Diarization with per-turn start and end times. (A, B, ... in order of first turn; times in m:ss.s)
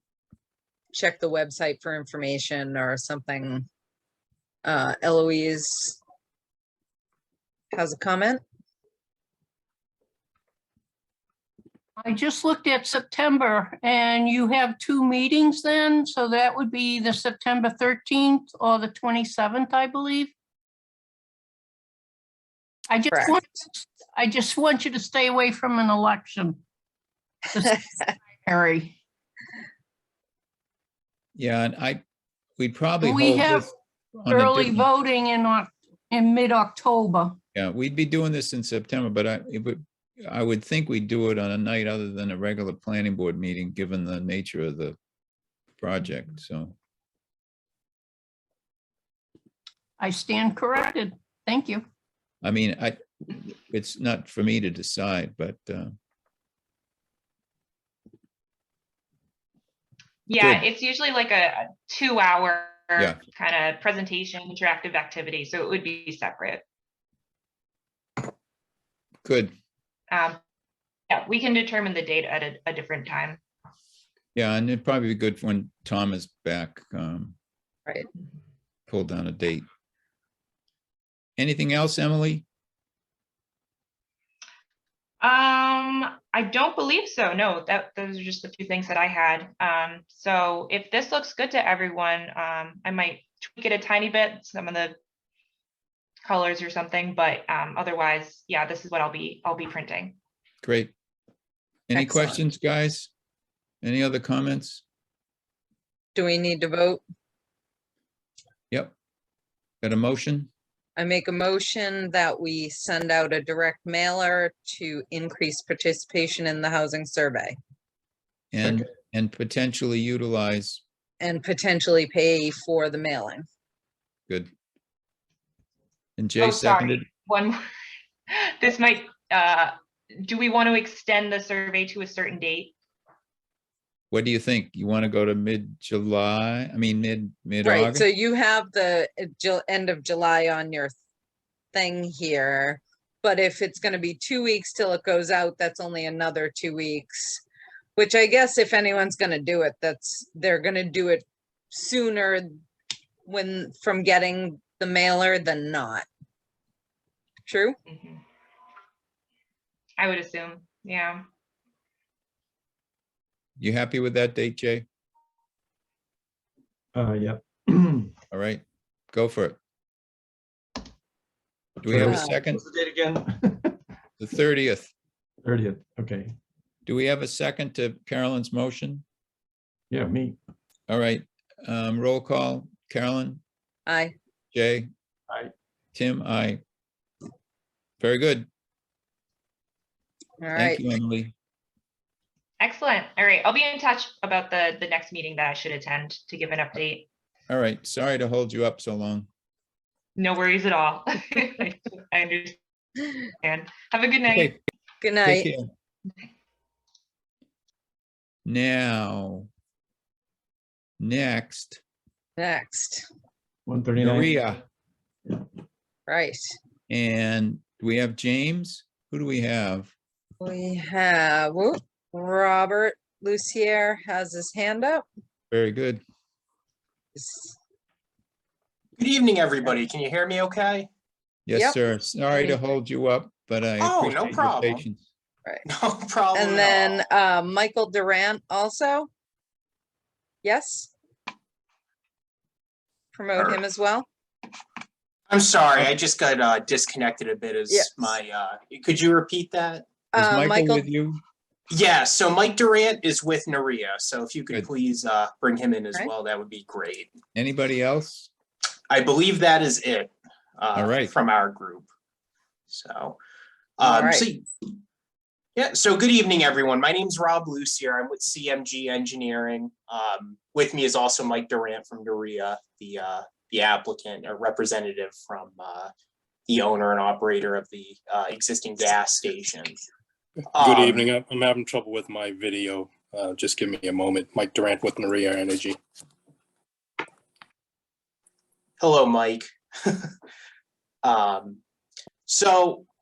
0:00.9-0:03.7 A
0:04.6-0:06.0 A
0:07.7-0:08.4 A
0:12.0-0:20.3 B
0:22.9-0:26.6 B
0:27.5-0:29.0 B
0:31.4-0:32.0 C
0:32.6-0:33.7 C
0:33.0-0:33.7 B
0:34.2-0:34.9 C
0:34.3-0:37.4 B
0:37.6-0:45.0 C
0:45.8-0:46.8 C
0:50.0-0:51.8 B
0:52.4-0:56.0 C
1:00.3-1:06.6 D
1:00.4-1:00.6 C
1:09.2-1:09.5 C
1:10.1-1:10.4 D
1:11.1-1:13.4 D
1:14.4-1:17.4 C
1:18.9-1:19.6 C
1:21.4-1:22.5 C
1:25.2-1:35.0 D
1:36.2-1:40.2 D
1:40.6-1:40.9 C
1:41.9-1:43.1 C
1:42.0-1:42.4 A
1:43.8-1:44.8 C
1:46.2-1:47.0 A
1:49.8-1:50.5 C
1:51.0-1:57.6 A
1:58.5-2:00.8 C
2:01.2-2:03.5 A
2:06.2-2:07.1 C
2:06.4-2:07.6 D
2:08.4-2:12.8 D
2:14.1-2:18.1 C
2:17.6-2:21.0 A
2:21.7-2:27.4 A
2:28.0-2:32.6 A
2:33.3-2:36.1 A
2:37.5-2:37.8 A
2:37.9-2:38.2 D
2:40.0-2:41.2 D
2:43.6-2:44.9 C
2:47.0-2:48.1 E
2:48.3-2:49.6 C
2:51.8-2:52.6 C
2:51.8-2:53.8 E
2:52.1-2:52.4 A
2:54.2-2:54.9 C
2:55.4-2:56.4 E
2:56.9-2:59.0 C
2:59.9-3:00.4 E
3:00.9-3:03.4 C
3:03.9-3:04.1 A
3:04.5-3:04.9 C
3:05.9-3:06.6 C
3:08.0-3:08.5 C
3:10.4-3:10.8 A
3:10.6-3:11.3 C
3:12.6-3:17.1 D
3:17.5-3:19.3 C
3:20.2-3:24.6 D
3:24.3-3:24.6 C
3:25.0-3:25.5 A
3:25.2-3:25.7 C
3:28.5-3:29.5 C
3:31.0-3:31.8 C
3:32.4-3:33.1 A
3:33.7-3:34.3 E
3:34.0-3:34.6 C
3:36.1-3:36.5 A
3:36.9-3:39.9 C
3:40.4-3:45.0 A
3:45.5-3:46.0 C
3:47.2-3:47.6 A
3:49.0-3:50.9 F
3:51.5-3:55.0 C
3:53.8-3:54.8 F
3:55.7-3:57.0 F
3:56.3-3:59.1 A
4:00.4-4:00.9 A
4:03.1-4:04.1 A
4:03.4-4:03.6 F
4:05.3-4:09.9 F
4:07.7-4:08.2 A
4:10.1-4:10.8 A
4:10.1-4:11.2 C
4:11.7-4:17.1 F
4:17.3-4:18.3 C
4:18.9-4:21.9 F
4:20.8-4:21.2 C
4:22.7-4:23.2 F
4:23.8-4:24.5 F
4:23.8-4:24.3 A
4:25.6-4:35.9 F
4:36.5-4:39.8 F
4:40.6-4:41.1 F
4:40.6-4:45.8 G
4:48.8-4:50.1 F
4:51.0-4:51.6 F
4:52.3-4:52.9 F